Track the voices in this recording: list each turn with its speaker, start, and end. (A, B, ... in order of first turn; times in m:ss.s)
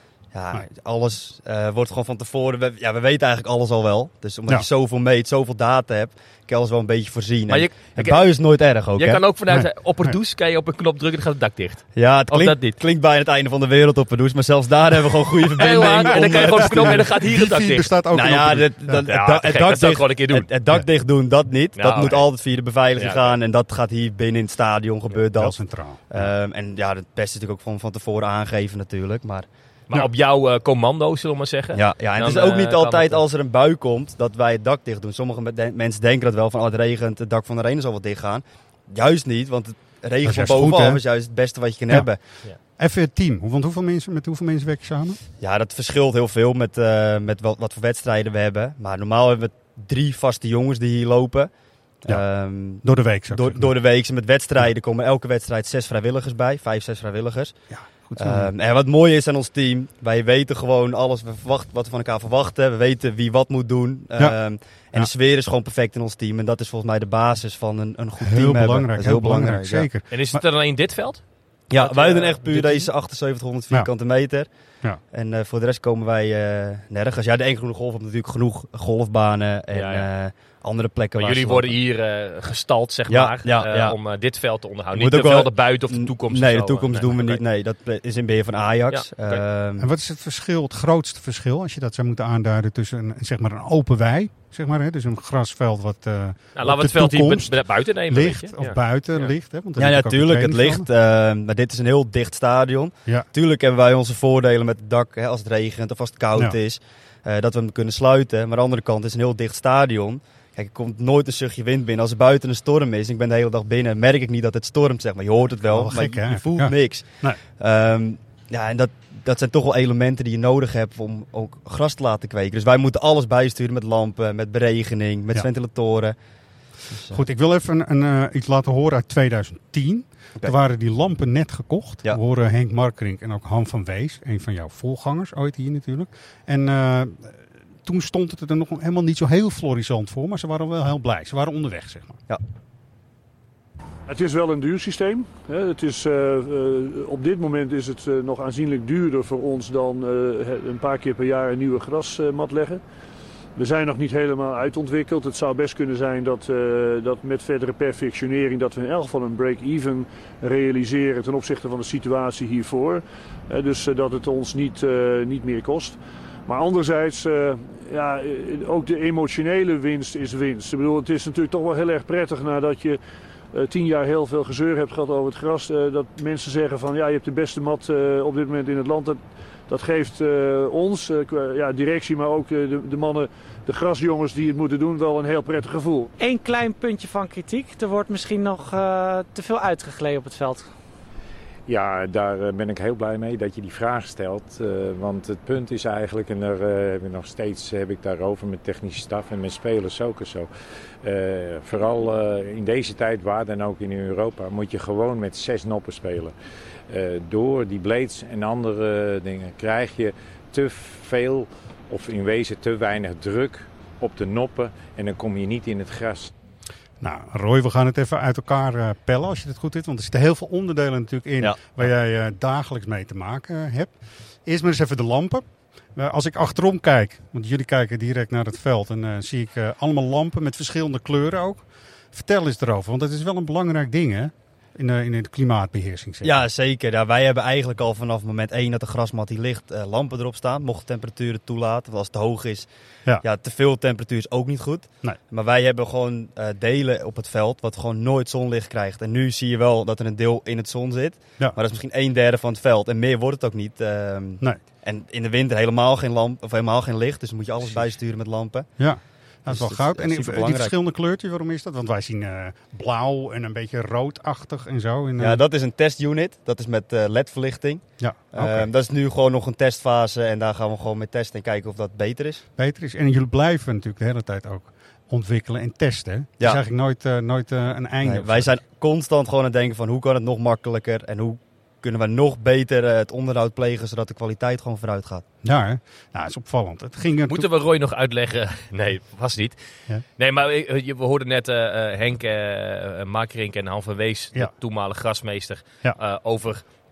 0:00.3-0:09.2 A
0:07.5-0:08.3 B
0:08.9-0:12.8 B
0:09.5-0:10.2 C
0:11.9-0:17.1 A
0:15.6-0:17.9 B
0:15.7-0:18.8 C
0:18.1-0:29.5 A
0:19.0-0:20.5 B
0:21.8-0:22.3 B
0:23.0-0:23.4 B
0:25.4-0:26.2 C
0:29.9-0:33.2 B
0:31.7-0:42.2 A
0:40.2-0:41.0 C
0:42.7-0:45.2 C
0:45.4-0:51.5 A
0:52.0-0:57.6 A
0:52.8-0:53.7 C
0:57.7-0:58.5 C
0:58.2-1:09.9 A
1:08.2-1:10.4 C
1:10.1-1:11.2 B
1:11.7-1:14.5 A
1:11.7-1:12.9 B
1:15.1-1:21.8 A
1:19.7-1:20.1 B
1:21.2-1:27.4 B
1:23.1-1:24.0 A
1:24.9-1:29.9 A
1:28.9-1:29.4 B
1:29.8-1:40.9 C
1:36.6-1:39.3 B
1:39.8-2:06.2 A
1:55.7-1:57.4 C
2:06.9-2:07.2 A
2:07.1-2:22.2 C
2:24.1-2:32.8 D
2:33.6-2:53.0 D
2:53.5-3:06.1 D
3:06.2-3:10.7 E
3:11.7-3:20.5 F
3:21.0-3:26.3 F
3:26.9-3:36.3 F
3:37.0-3:45.4 C
3:41.4-3:41.9 A
3:46.0-3:56.4 C
3:56.2-4:02.7 A
4:03.2-4:18.7 A
4:18.8-4:25.4 C
4:19.5-4:20.7 A
4:25.2-4:32.4 A
4:28.0-4:28.7 C
4:32.6-4:38.5 C
4:38.0-4:45.2 A
4:45.4-4:47.5 C
4:47.3-4:49.6 B
4:50.2-4:56.6 B